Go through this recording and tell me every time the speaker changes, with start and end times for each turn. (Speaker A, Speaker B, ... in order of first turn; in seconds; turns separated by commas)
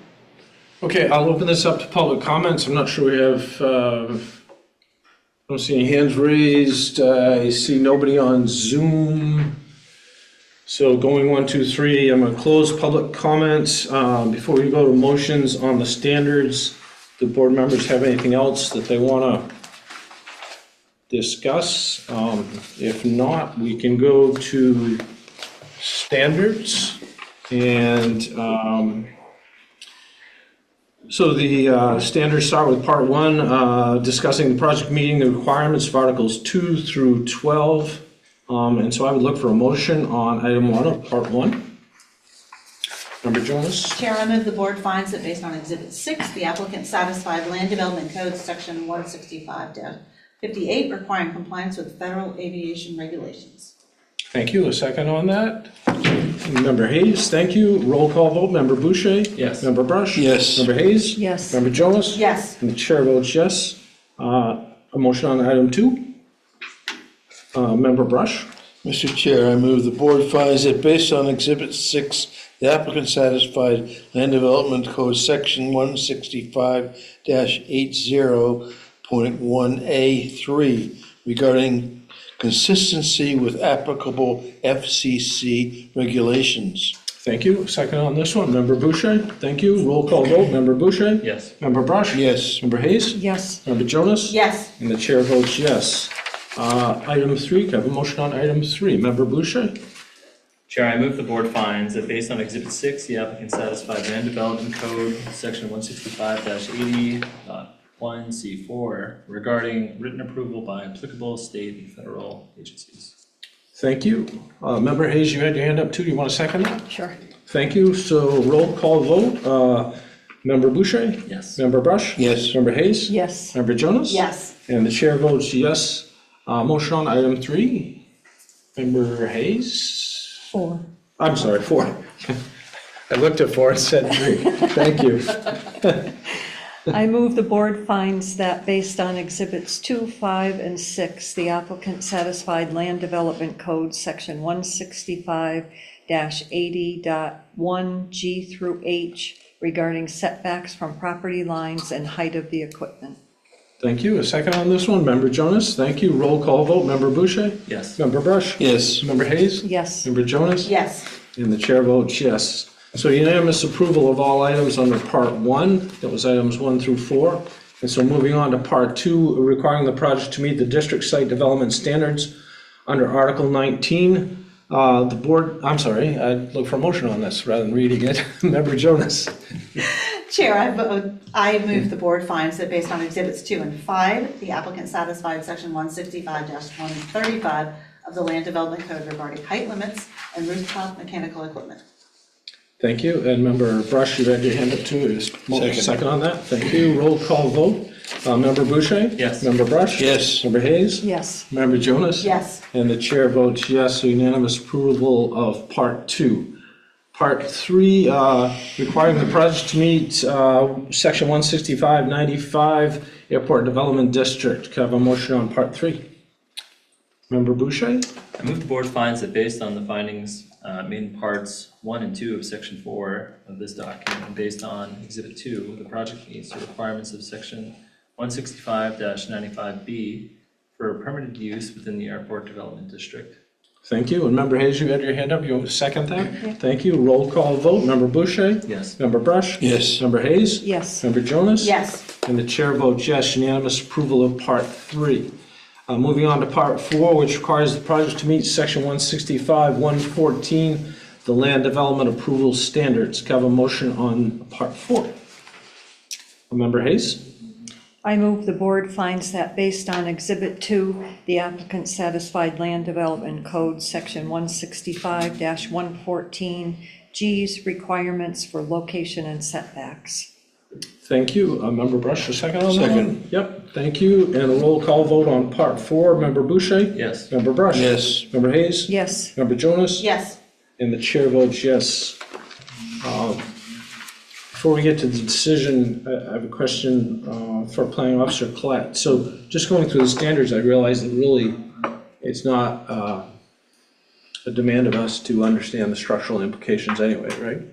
Speaker A: 0.8-4.4, Speaker A: 5.5-9.6, Speaker A: 10.7-19.5, Speaker A: 21.1-25.0, Speaker A: 25.8-29.1, Speaker A: 31.1-41.6, Speaker A: 43.2-44.0, Speaker B: 43.9-53.7, Speaker A: 54.3-55.7, Speaker A: 56.3-66.0, Speaker C: 59.4-59.7, Speaker D: 60.1-60.7, Speaker E: 61.1-61.6, Speaker B: 62.1-62.6, Speaker A: 67.5-68.5, Speaker D: 68.8-86.9, Speaker A: 87.2-99.8, Speaker C: 91.2-91.5, Speaker D: 92.1-92.6, Speaker E: 93.1-93.6, Speaker B: 94.3-94.7, Speaker C: 100.7-113.1, Speaker A: 113.8-116.8, Speaker E: 116.9-117.2, Speaker A: 117.5-119.9, Speaker A: 120.4-128.0, Speaker C: 121.3-121.6, Speaker D: 122.2-122.5, Speaker E: 123.1-123.6, Speaker B: 124.1-124.5, Speaker A: 128.8-130.4, Speaker E: 130.5-130.8, Speaker A: 131.2-132.4, Speaker A: 133.1-136.1, Speaker E: 136.9-153.2, Speaker A: 153.8-160.7, Speaker C: 157.7-158.0, Speaker D: 158.6-159.0, Speaker E: 159.6-160.1, Speaker B: 160.6-161.1, Speaker A: 161.3-172.3, Speaker A: 172.9-179.3, Speaker B: 179.8-191.8, Speaker A: 192.8-206.5, Speaker D: 195.5-196.0, Speaker C: 199.2-199.5, Speaker D: 200.0-200.4, Speaker E: 201.0-201.5, Speaker B: 202.2-202.6, Speaker A: 207.1-216.0, Speaker A: 217.3-218.1, Speaker C: 218.4-233.4, Speaker A: 233.9-245.3, Speaker C: 238.7-239.0, Speaker D: 239.6-240.0, Speaker E: 240.6-241.1, Speaker B: 241.6-242.1, Speaker A: 245.9-255.1, Speaker A: 256.5-257.2, Speaker E: 258.0-270.3, Speaker A: 271.0-280.1, Speaker D: 272.7-273.2, Speaker C: 276.9-277.3, Speaker D: 277.7-278.3, Speaker E: 278.9-279.3, Speaker B: 280.0-280.4, Speaker A: 280.8-282.2, Speaker A: 283.0-283.4, Speaker A: 284.5-291.6, Speaker A: 292.2-293.2, Speaker A: 294.4-297.6